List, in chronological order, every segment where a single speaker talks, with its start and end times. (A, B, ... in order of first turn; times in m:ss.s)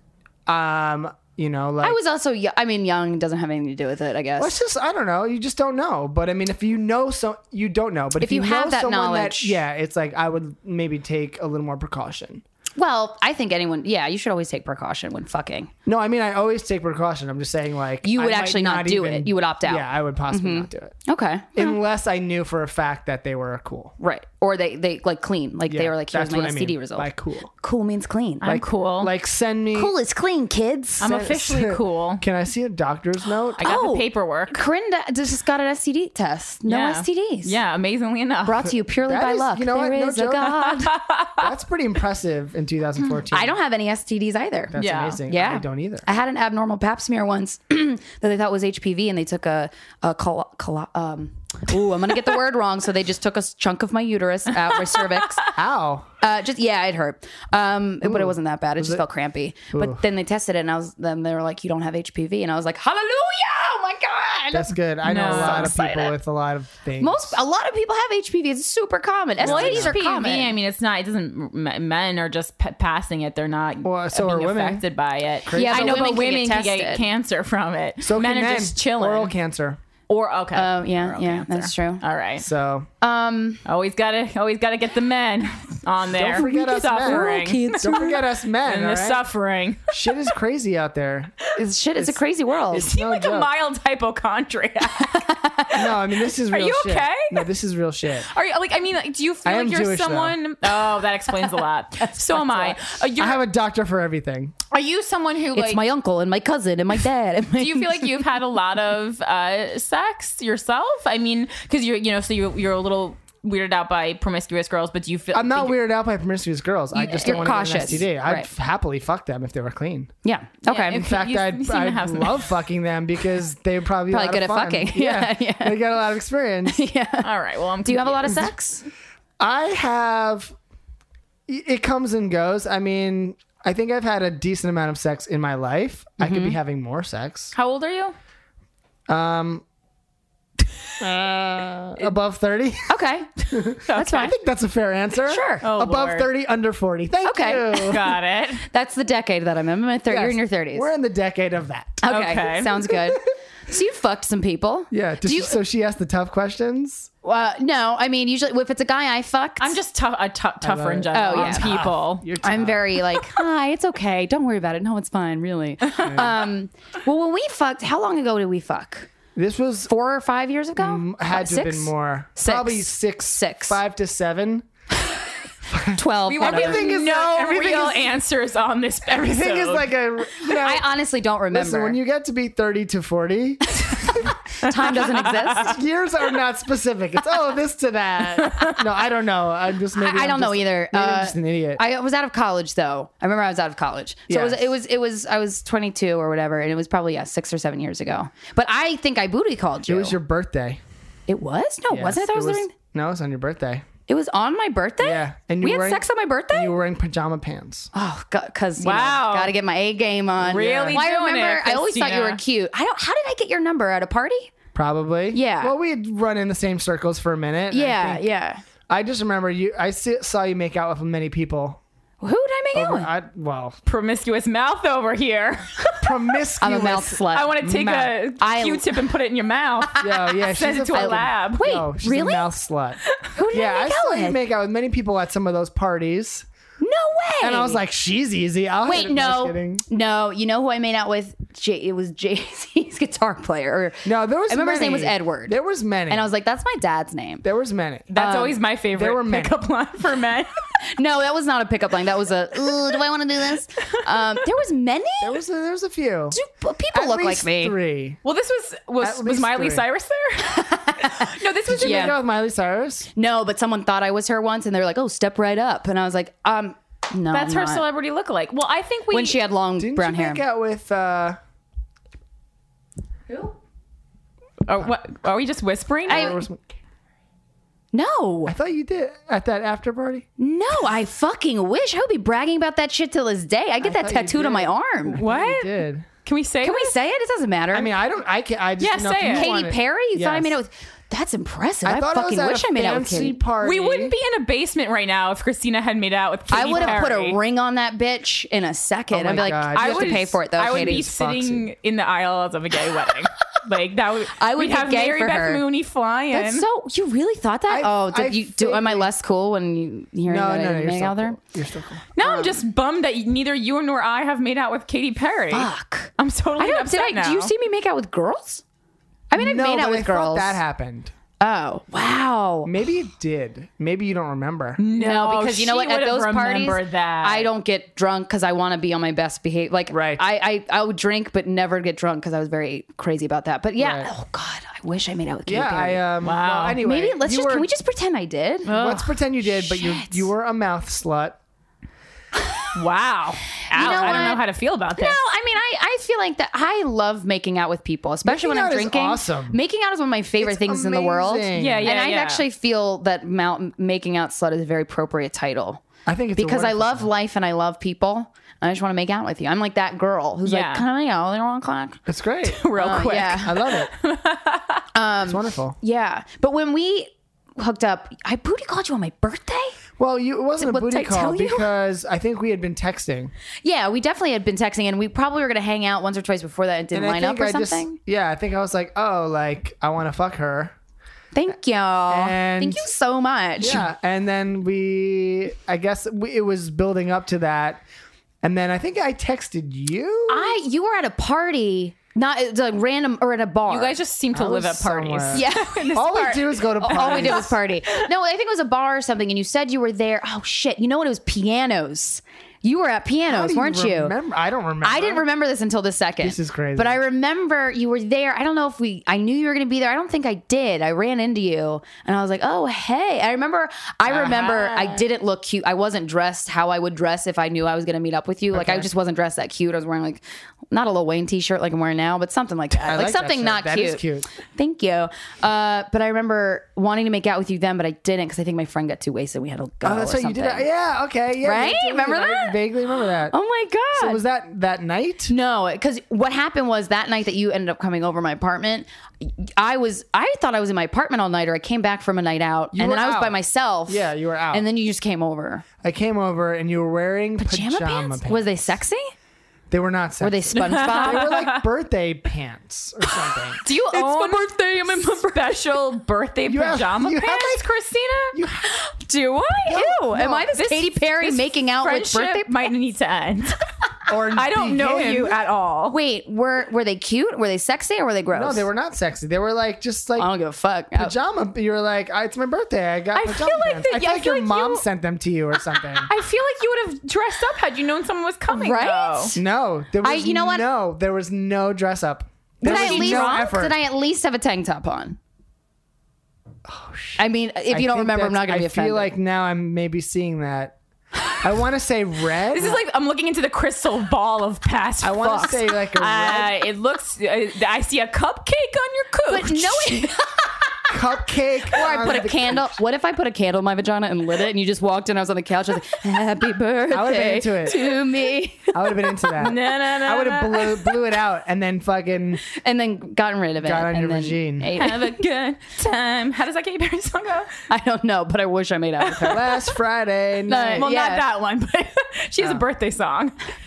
0:00.5-0:02.0 A
0:01.8-0:04.6 B
0:04.4-0:12.4 A
0:08.2-0:09.6 B
0:12.8-0:15.7 B
0:15.8-0:21.0 A
0:18.0-0:21.7 B
0:21.5-0:23.9 A
0:24.0-0:28.6 B
0:25.7-0:27.5 A
0:28.4-0:29.1 C
0:28.4-0:29.9 A
0:29.7-0:31.1 B
0:31.0-0:33.6 A
0:31.0-0:32.2 C
0:33.6-0:34.6 C
0:33.6-0:37.6 B
0:36.7-0:38.7 C
0:38.4-0:40.9 B
0:39.0-0:40.8 A
0:40.8-0:41.5 C
0:41.4-0:43.6 A
0:43.3-0:44.7 B
0:44.7-0:46.1 A
0:44.8-0:45.2 C
0:45.3-0:55.5 B
0:54.7-0:55.4 C
0:55.5-0:56.1 A
0:56.2-1:06.1 B
0:58.0-0:59.0 A
0:59.7-1:00.0 A
1:04.5-1:07.4 A
1:05.0-1:05.8 C
1:07.0-1:10.5 B
1:09.4-1:10.0 A
1:09.4-1:19.3 C
1:13.8-1:14.8 A
1:15.4-1:16.2 A
1:15.5-1:17.0 B
1:18.0-1:19.8 A
1:20.1-1:22.4 C
1:20.5-1:22.0 B
1:22.4-1:22.9 A
1:23.0-1:23.6 B
1:23.6-1:28.1 C
1:26.1-1:29.2 A
1:26.3-1:28.2 B
1:28.6-1:30.1 C
1:29.9-1:32.2 A
1:31.6-1:32.9 B
1:32.7-1:33.5 A
1:32.8-1:35.3 C
1:35.0-1:35.9 B
1:35.7-1:38.3 A
1:36.5-1:37.5 C
1:38.3-1:43.4 C
1:39.4-1:40.4 A
1:41.3-1:42.8 B
1:43.2-1:44.5 A
1:44.7-1:45.8 C
1:45.5-1:48.2 B
1:47.6-1:55.8 C
1:55.3-2:00.1 A
1:56.9-1:58.5 B
2:00.2-2:01.0 B
2:00.7-2:02.5 C
2:00.9-2:06.8 A
2:04.1-2:05.8 B
2:06.6-2:07.3 B
2:07.2-2:08.4 C
2:07.8-2:08.8 B
2:09.4-2:10.5 A
2:11.5-2:17.5 A
2:16.2-2:16.6 B
2:17.5-2:18.1 C
2:19.1-2:19.6 A
2:21.0-2:22.9 A
2:22.9-2:23.3 B
2:23.5-2:28.1 A
2:23.9-2:24.3 C
2:23.9-2:24.3 B
2:25.2-2:25.6 B
2:25.6-2:26.3 C
2:27.2-2:28.0 B
2:27.8-2:28.6 C
2:28.7-2:30.9 B
2:30.1-2:32.1 A
2:32.0-2:35.6 B
2:32.1-2:32.8 C
2:32.9-2:33.2 A
2:34.9-2:37.1 A
2:37.2-2:39.8 B
2:39.6-2:42.3 C
2:40.6-2:43.2 A
2:41.1-2:41.7 B
2:42.4-2:49.1 B
2:49.4-2:49.9 A
2:49.9-2:53.8 B
2:50.8-2:54.6 A
2:55.7-2:58.1 A
2:55.9-2:56.9 B
2:56.3-2:59.9 C
2:59.1-3:00.9 A
3:00.4-3:02.0 B
3:01.5-3:04.4 A
3:03.7-3:05.8 B
3:04.7-3:05.3 C
3:05.5-3:11.8 A
3:08.4-3:08.8 C
3:09.9-3:20.2 B
3:14.3-3:14.7 A
3:19.9-3:20.8 A
3:21.3-3:22.7 B
3:21.9-3:23.8 A
3:24.1-3:26.7 B
3:25.0-3:27.9 A
3:27.9-3:34.5 B
3:28.8-3:29.5 C
3:30.4-3:32.4 C
3:34.7-3:38.2 A
3:35.3-3:35.7 B
3:37.7-3:38.6 B
3:38.9-3:41.8 A
3:42.2-3:43.1 B
3:42.7-3:43.8 A
3:43.8-3:46.2 C
3:46.0-3:48.1 A
3:46.6-3:49.0 B
3:47.3-3:51.7 C
3:50.0-3:56.4 A
3:50.9-3:52.5 B
3:53.3-3:54.4 B
3:56.8-3:57.8 B
3:57.4-3:59.8 A
3:58.8-4:05.5 B
4:04.0-4:06.2 A
4:06.1-4:07.4 B
4:07.4-4:08.2 A
4:08.1-4:10.5 C
4:08.1-4:08.6 B
4:08.9-4:09.6 A
4:10.9-4:15.4 B
4:15.2-4:16.4 A
4:16.3-4:17.7 B
4:16.9-4:18.2 A
4:18.2-4:22.2 C
4:19.0-4:19.8 A
4:20.4-4:22.1 B
4:21.7-4:23.1 A
4:23.2-4:27.8 B
4:27.3-4:29.4 C
4:29.1-4:30.4 B
4:29.8-4:31.4 A
4:34.6-4:36.4 C
4:36.0-4:36.7 A
4:36.1-4:36.4 B
4:37.9-4:38.5 B
4:38.5-4:40.2 A
4:40.4-4:45.2 B
4:43.8-4:46.0 A
4:45.2-4:47.0 C
4:46.6-4:47.9 B
4:47.7-4:50.5 A
4:48.8-4:49.5 C
4:49.3-4:53.4 B
4:51.8-4:54.1 A
4:53.6-4:57.4 C
4:56.5-5:01.0 B
4:56.5-4:57.0 A
4:59.1-5:01.7 A
4:59.7-5:06.6 C
5:04.4-5:05.6 B
5:06.3-5:11.4 B
5:07.7-5:09.1 A
5:10.3-5:12.1 A
5:12.2-5:17.5 C
5:12.2-5:12.5 B
5:15.5-5:18.6 B
5:19.3-5:20.6 B
5:19.3-5:21.1 A
5:21.4-5:22.7 B
5:22.6-5:24.8 A
5:24.8-5:27.5 C
5:24.9-5:36.0 B
5:29.9-5:30.2 A
5:33.8-5:34.1 A
5:35.4-5:37.7 A
5:36.2-5:36.8 C
5:36.8-5:38.8 B
5:38.6-5:39.2 C
5:38.7-5:41.4 A
5:39.4-5:40.3 B
5:42.7-5:45.2 C
5:43.7-5:44.4 B
5:43.8-5:44.3 A
5:44.9-5:55.8 B
5:48.2-5:49.6 A
5:50.4-5:51.9 A
5:51.5-5:52.4 C
5:56.0-5:57.1 A
5:56.4-6:02.0 B
6:00.4-6:00.8 C
6:02.1-6:03.9 A
6:02.4-6:04.8 C
6:02.7-6:03.6 B
6:04.9-6:09.8 B
6:05.2-6:05.8 A
6:10.0-6:13.3 A
6:10.6-6:11.7 B
6:13.6-6:17.9 B
6:16.9-6:20.7 A
6:21.3-6:23.8 B
6:22.1-6:22.9 A
6:23.6-6:27.8 A
6:28.4-6:30.6 A
6:30.3-6:34.0 B
6:33.7-6:38.1 C
6:34.3-6:37.6 A
6:35.3-6:36.0 B
6:36.8-6:44.1 B
6:43.3-6:45.2 A
6:44.8-7:10.6 B
6:46.2-6:47.0 A
6:54.1-6:55.0 A
6:58.5-6:58.9 A
7:02.8-7:04.3 A
7:09.8-7:13.3 A
7:11.4-7:12.6 B
7:13.3-7:14.2 B
7:13.9-7:15.3 A
7:15.3-7:25.6 B
7:22.7-7:24.6 A
7:25.8-7:28.8 A
7:27.4-7:29.1 B
7:29.7-7:33.6 A
7:30.2-7:31.3 B
7:30.6-7:31.6 C
7:33.6-7:35.4 B
7:33.6-7:38.4 C
7:36.4-7:37.6 A
7:38.3-7:38.9 A
7:39.1-7:42.7 B
7:39.6-7:40.5 A
7:40.5-7:43.6 C
7:44.1-7:45.4 A
7:44.3-7:46.0 C
7:45.9-7:48.6 B
7:48.3-7:50.3 A
7:50.2-7:51.1 B
7:50.9-7:56.1 A
7:53.1-7:54.8 C
7:56.0-7:59.3 C
7:58.5-7:59.4 B
7:59.3-8:03.8 A
8:00.0-8:00.6 B
8:02.6-8:03.5 C
8:02.6-8:05.2 B
8:06.7-8:10.8 A
8:07.2-8:09.1 B
8:11.4-8:12.8 A
8:12.5-8:20.1 C
8:15.0-8:16.6 A
8:19.3-8:20.9 B
8:20.9-8:22.8 A
8:21.7-8:29.3 B
8:26.9-8:27.9 A
8:28.7-8:32.4 A
8:29.4-8:31.0 C
8:32.5-8:35.2 B
8:33.6-8:34.7 A
8:34.8-8:37.5 C
8:37.7-8:39.5 B
8:39.2-8:40.9 A
8:40.5-8:41.3 B
8:40.7-8:43.3 C